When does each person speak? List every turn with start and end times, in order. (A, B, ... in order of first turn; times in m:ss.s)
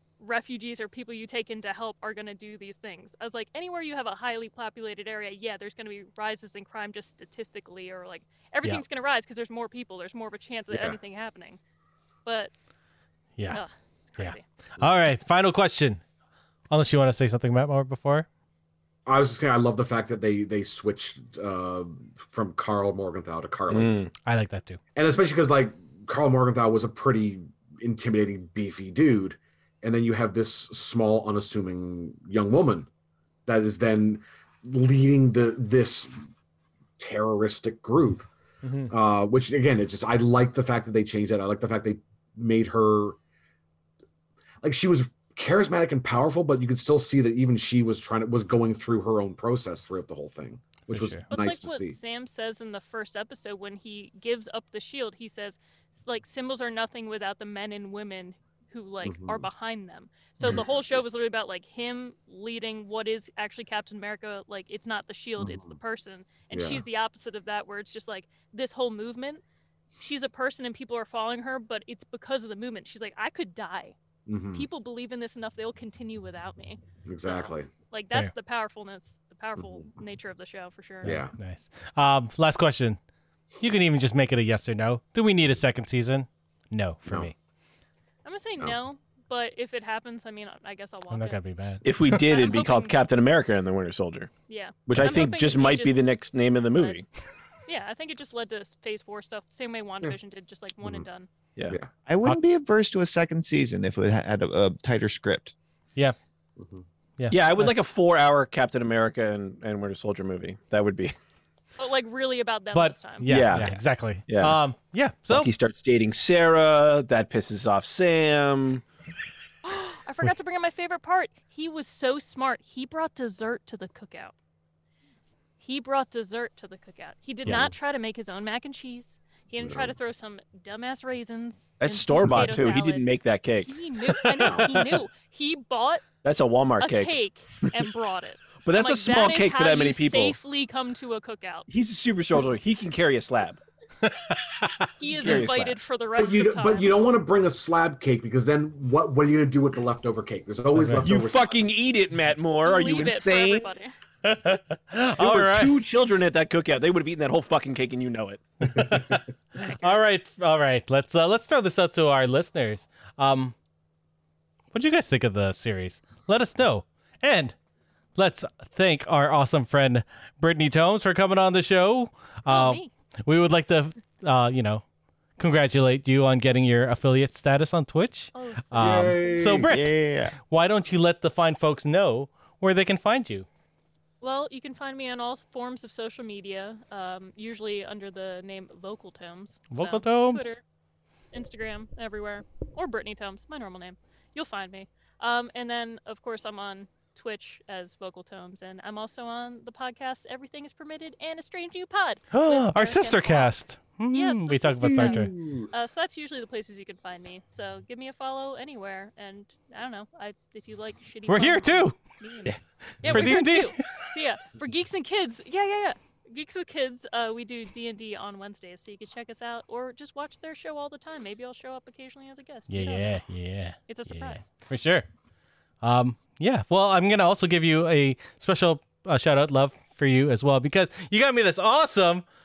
0:00.2-0:11.6 A
0:10.7-0:11.0 B
0:12.2-0:12.5 A
0:13.4-0:13.6 C
0:13.5-0:14.4 A
0:14.2-0:16.0 C
0:16.7-0:18.3 C
0:19.1-0:23.9 B
0:23.7-0:24.1 D
0:24.2-0:24.8 C
0:25.0-0:32.9 B
0:33.5-0:36.2 B
0:37.0-0:38.3 B
0:38.6-0:38.9 C
0:38.9-0:43.2 B
0:44.6-0:52.0 B
0:50.9-0:51.3 C
0:51.3-1:09.4 A
0:59.0-0:59.5 B
1:05.4-1:05.8 B
1:06.5-1:06.8 B
1:10.0-1:14.0 A
1:14.3-1:14.7 B
1:14.5-1:21.1 A
1:17.1-1:17.7 B
1:21.0-1:23.0 C
1:21.0-1:21.3 B
1:23.6-1:27.4 C
1:27.1-1:27.3 B
1:28.2-1:31.4 A
1:31.1-1:32.1 C
1:31.8-1:34.3 D
1:32.1-1:33.0 A
1:34.5-1:36.1 A
1:34.9-1:37.0 D
1:36.7-1:37.0 A
1:37.7-1:41.3 A
1:42.1-1:45.5 E
1:46.6-1:46.8 B
1:47.2-1:47.7 C
1:47.3-1:51.1 D
1:51.8-1:53.7 A
1:52.7-1:55.5 C
1:53.3-1:54.6 D
1:55.3-1:58.8 D
1:59.6-2:04.3 A
2:05.6-2:16.1 A
2:09.6-2:09.9 B
2:11.8-2:13.7 D
2:14.1-2:14.7 C
2:14.4-2:14.7 B
2:16.2-2:17.2 D
2:16.8-2:21.7 A
2:18.6-2:20.4 D
2:21.7-2:23.6 D
2:24.0-2:25.3 C
2:25.0-2:27.1 A
2:25.2-2:25.8 D
2:26.2-2:31.6 B
2:30.8-2:31.1 C
2:31.0-2:33.7 D
2:32.6-2:34.0 A
2:34.2-2:35.8 C
2:35.2-2:38.4 D
2:38.6-2:43.6 C
2:38.8-2:39.1 B
2:39.6-2:40.0 A
2:44.7-2:47.6 C
2:48.2-2:54.8 C
2:52.5-2:52.9 A
2:55.4-3:03.5 C
2:58.3-2:59.6 A
2:58.8-2:59.7 B
2:59.6-3:00.4 E
3:04.2-3:10.6 A
3:09.7-3:10.6 C
3:11.3-3:23.5 A
3:22.3-3:25.3 C
3:24.1-3:43.2 A
3:24.9-3:25.7 B
3:31.3-3:32.0 C
3:32.5-3:33.4 E
3:33.0-3:34.2 C
3:42.7-3:45.1 C
3:43.9-3:44.5 A
3:45.8-3:52.2 C